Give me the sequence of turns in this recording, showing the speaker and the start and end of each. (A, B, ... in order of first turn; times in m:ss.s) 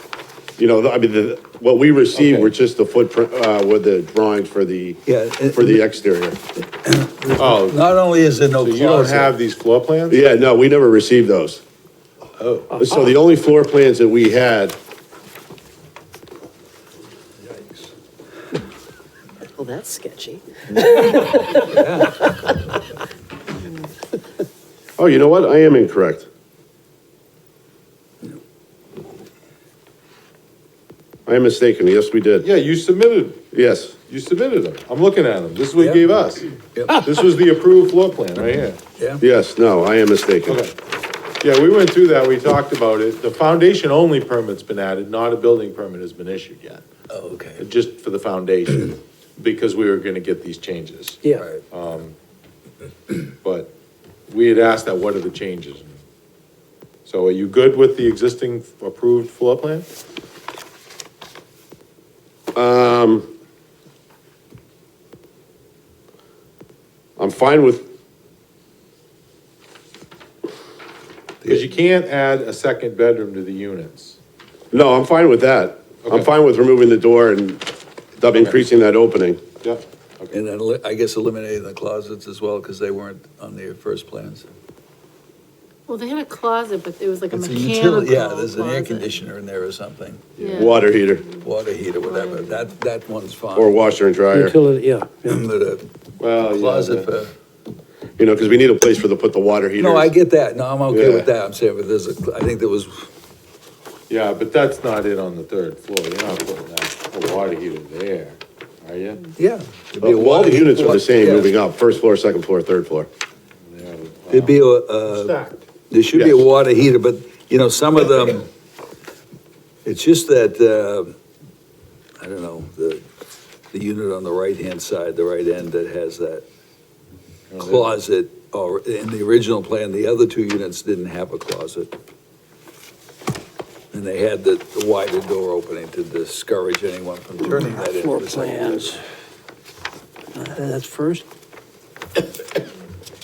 0:00.6-0:05.0 A
0:02.1-0:02.5 B
0:05.0-0:05.8 C
0:05.5-0:06.4 A
0:06.8-0:09.3 C
0:07.4-0:07.9 B
0:08.6-0:10.2 B
0:10.1-0:11.6 A
0:12.4-0:12.8 B
0:12.7-0:14.8 A
0:19.6-0:22.3 D
0:21.6-0:22.2 C
0:25.0-0:26.3 A
0:31.2-0:32.5 A
0:32.4-0:33.4 B
0:33.5-0:34.0 A
0:34.1-0:38.8 B
0:35.8-0:36.0 C
0:36.7-0:37.0 C
0:39.0-0:39.2 C
0:39.2-0:40.6 A
0:40.5-0:40.7 B
0:41.4-0:46.8 B
0:47.1-0:47.6 C
0:47.6-0:52.2 B
0:51.4-0:51.6 C
0:53.4-0:53.7 B
0:54.3-0:56.0 B
0:57.0-0:59.9 B
1:02.5-1:03.3 A
1:07.2-1:07.9 A
1:11.4-1:14.2 B
1:14.7-1:17.6 A
1:18.2-1:19.4 A
1:19.6-1:20.3 B
1:20.3-1:24.5 C
1:25.9-1:29.1 E
1:27.3-1:30.3 C
1:30.4-1:30.6 B
1:30.4-1:31.2 A
1:31.4-1:33.7 C
1:33.5-1:34.6 A
1:34.3-1:35.4 F
1:35.2-1:35.8 C
1:36.2-1:37.1 B
1:36.4-1:37.3 C
1:38.2-1:40.1 A
1:39.8-1:43.1 C
1:40.9-1:41.3 A
1:44.1-1:49.3 B
1:49.4-1:51.5 C
1:50.0-1:53.1 A
1:53.7-1:54.6 B
1:54.3-1:58.4 C
1:55.2-1:55.5 B
1:59.8-2:01.1 C
2:02.2-2:03.0 C
2:03.7-2:06.4 C
2:07.5-2:07.9 B
2:07.6-2:11.9 C
2:13.9-2:19.0 C
2:17.6-2:19.0 F
2:20.3-2:21.2 F